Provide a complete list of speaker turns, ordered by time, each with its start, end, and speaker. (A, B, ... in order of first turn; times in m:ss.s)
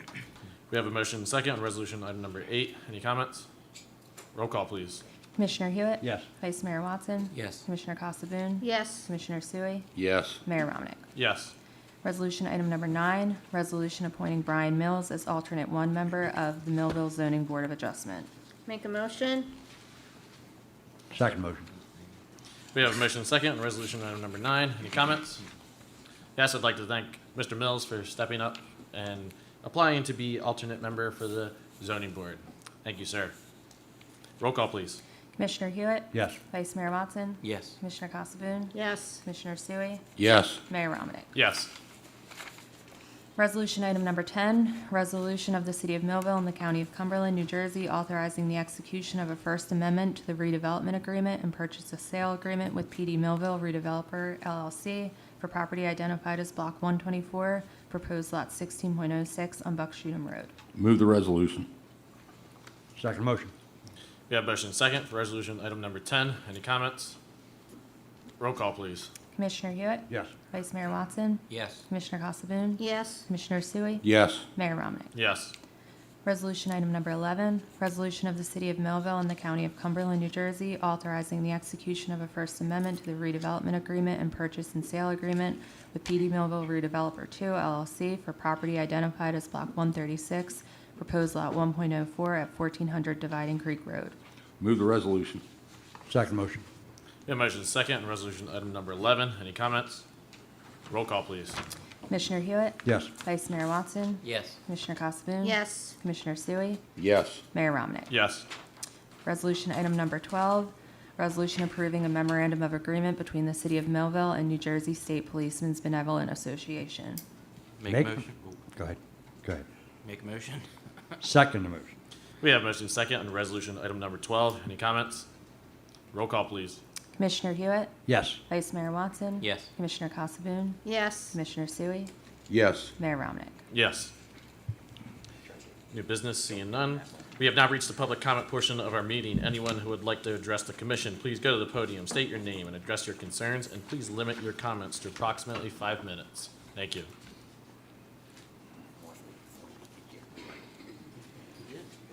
0:00.7-0:03.5 A
0:04.3-0:05.0 A
0:05.4-0:09.9 B
0:06.0-0:06.3 C
0:07.3-0:07.6 D
0:08.6-0:09.0 E
0:10.0-0:10.4 F
0:10.4-0:11.0 B
0:11.1-0:11.5 A
0:12.0-0:18.3 B
0:18.7-0:19.6 E
0:21.1-0:21.7 C
0:22.7-0:25.4 A
0:26.4-0:33.3 A
0:34.4-0:35.0 A
0:35.4-0:40.0 B
0:36.1-0:36.4 C
0:37.4-0:37.8 D
0:38.7-0:39.2 E
0:40.2-0:40.6 F
0:40.7-0:41.3 B
0:41.3-0:41.7 A
0:43.4-1:00.5 B
1:00.7-1:01.7 F
1:03.0-1:03.5 C
1:04.3-1:07.2 A
1:08.4-1:09.1 A
1:09.3-1:15.1 B
1:11.5-1:11.8 D
1:12.8-1:13.2 E
1:14.0-1:14.4 F
1:15.1-1:15.5 A
1:16.2-1:34.1 B
1:34.6-1:35.4 F
1:36.1-1:36.6 C
1:37.3-1:40.0 A
1:40.9-1:41.6 A
1:42.1-1:46.8 B
1:42.8-1:43.1 C
1:44.2-1:44.6 D
1:45.4-1:45.9 E
1:47.0-1:47.4 F
1:47.5-1:48.1 B
1:48.1-1:48.4 A
1:49.2-1:57.2 B
1:57.8-1:58.6 D
1:57.9-1:59.6 C
2:00.0-2:00.7 D
2:01.2-2:01.9 C
2:02.4-2:05.2 A
2:06.1-2:06.8 A
2:07.2-2:07.9 B
2:08.0-2:08.4 C
2:08.5-2:12.1 B
2:09.4-2:09.7 D
2:10.8-2:11.4 E
2:12.5-2:12.9 F
2:13.0-2:13.6 B
2:13.7-2:14.1 A
2:15.9-2:27.1 A